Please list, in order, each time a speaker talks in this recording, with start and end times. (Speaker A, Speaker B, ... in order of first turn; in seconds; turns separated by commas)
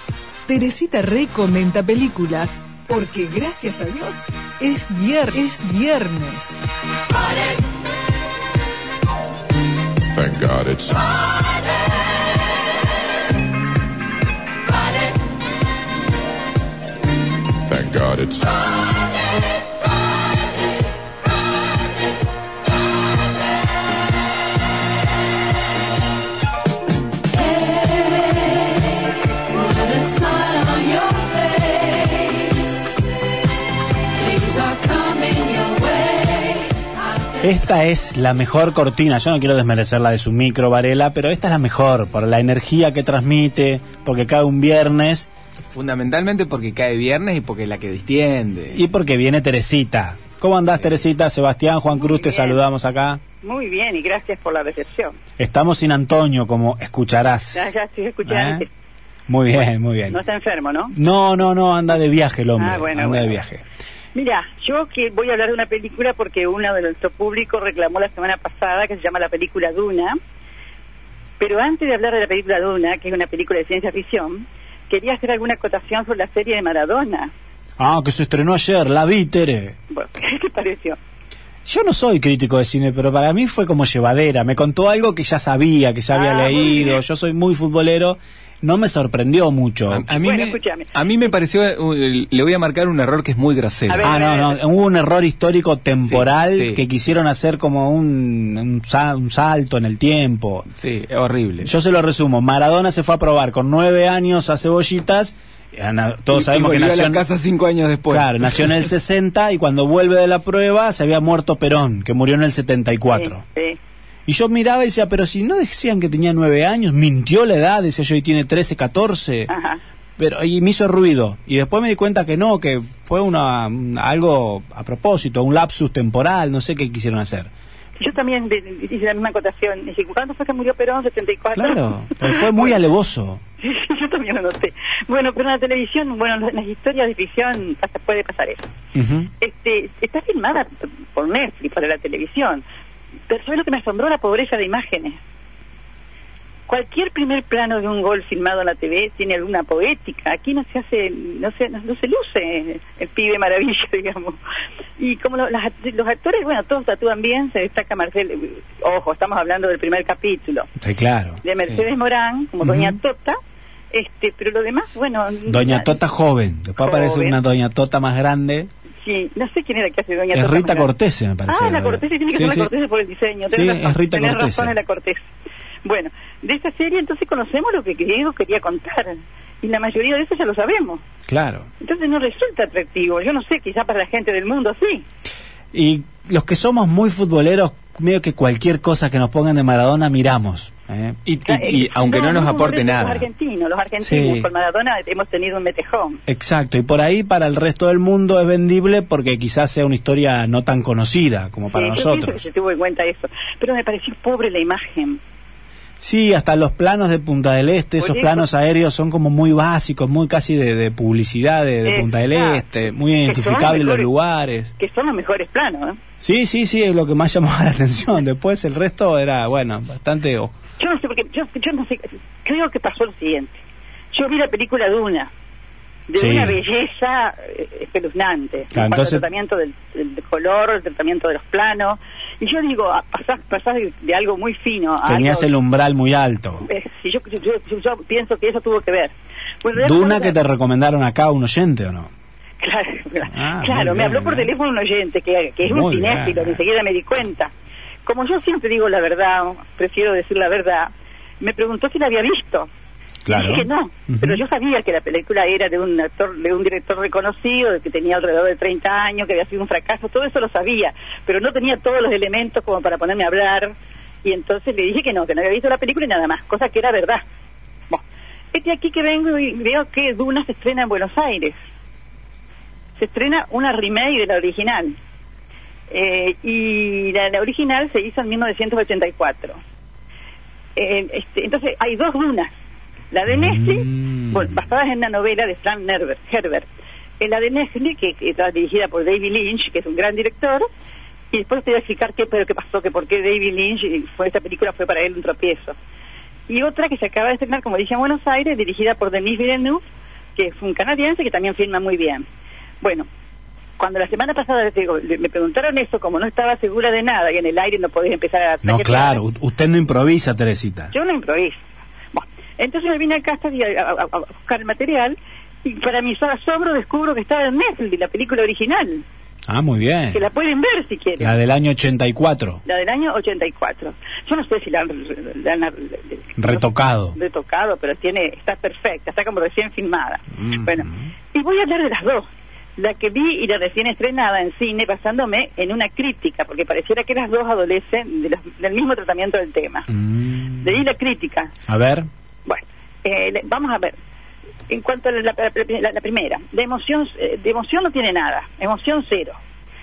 Speaker A: 0.5-6.5, Speaker B: 10.1-11.5, Speaker B: 17.6-18.8, Speaker A: 27.9-28.4, Speaker A: 29.9-32.5, Speaker A: 34.4-35.9, Speaker C: 37.4-45.3, Speaker D: 45.7-48.8, Speaker C: 48.7-53.2, Speaker E: 52.0-52.6, Speaker E: 53.4-55.2, Speaker C: 55.4-57.7, Speaker E: 57.5-58.7, Speaker C: 58.2-58.6, Speaker C: 59.3-60.2, Speaker E: 60.1-61.0, Speaker C: 60.9-63.6, Speaker E: 62.5-63.4, Speaker E: 64.1-70.2, Speaker E: 71.4-77.3, Speaker C: 77.8-79.7, Speaker E: 79.9-81.0, Speaker C: 81.6-90.1, Speaker E: 86.1-87.0, Speaker D: 89.9-94.2, Speaker E: 90.1-90.9, Speaker E: 93.9-94.6, Speaker C: 94.0-100.7, Speaker D: 96.0-96.8, Speaker D: 100.8-101.7, Speaker C: 101.6-107.2, Speaker D: 106.3-108.8, Speaker C: 108.1-113.4, Speaker E: 113.1-113.8, Speaker C: 114.3-119.5, Speaker E: 119.5-119.8, Speaker C: 120.2-127.5, Speaker E: 128.0-132.8, Speaker C: 131.5-133.4, Speaker E: 133.6-138.6, Speaker C: 138.9-139.3, Speaker E: 139.4-142.6, Speaker E: 143.3-145.2, Speaker E: 146.7-154.4, Speaker E: 155.0-160.7, Speaker C: 160.8-161.4, Speaker E: 161.4-163.4, Speaker C: 162.6-163.0, Speaker E: 163.9-165.9, Speaker C: 165.4-168.7, Speaker E: 166.8-167.4, Speaker E: 169.0-170.9, Speaker C: 170.3-172.7, Speaker E: 171.5-175.3, Speaker C: 173.5-174.7, Speaker E: 175.8-181.0, Speaker C: 181.3-181.7, Speaker E: 181.8-185.0, Speaker C: 185.7-191.2, Speaker D: 191.2-193.3, Speaker E: 191.4-196.2, Speaker C: 194.0-194.5, Speaker C: 196.3-202.4, Speaker E: 201.7-205.2, Speaker C: 206.0-214.7, Speaker E: 208.0-208.4, Speaker E: 211.8-212.6, Speaker E: 213.2-214.1, Speaker E: 214.8-216.0, Speaker C: 216.2-220.5, Speaker E: 220.8-223.6, Speaker E: 224.1-225.3, Speaker E: 226.1-235.5, Speaker C: 226.2-226.6, Speaker C: 228.7-229.2, Speaker C: 235.0-236.7, Speaker E: 236.6-240.4, Speaker C: 239.7-242.1, Speaker E: 242.6-247.5, Speaker C: 243.3-244.5, Speaker C: 245.6-246.6, Speaker E: 248.0-252.7, Speaker C: 253.2-254.4, Speaker E: 253.3-267.2, Speaker E: 267.9-271.6, Speaker E: 272.9-275.0, Speaker E: 275.9-279.6, Speaker E: 280.8-282.5, Speaker E: 283.1-286.7, Speaker C: 283.3-284.4, Speaker E: 287.2-290.7, Speaker E: 291.3-295.8, Speaker E: 296.5-302.2, Speaker E: 302.8-303.1, Speaker E: 303.8-309.2, Speaker C: 308.6-310.9, Speaker E: 310.9-319.0, Speaker C: 319.5-320.2, Speaker E: 320.1-321.4, Speaker C: 321.2-322.6, Speaker E: 322.6-340.0, Speaker C: 326.4-327.1, Speaker C: 339.9-340.6, Speaker E: 340.5-341.5, Speaker C: 341.7-342.1, Speaker E: 342.4-343.9, Speaker E: 344.7-349.4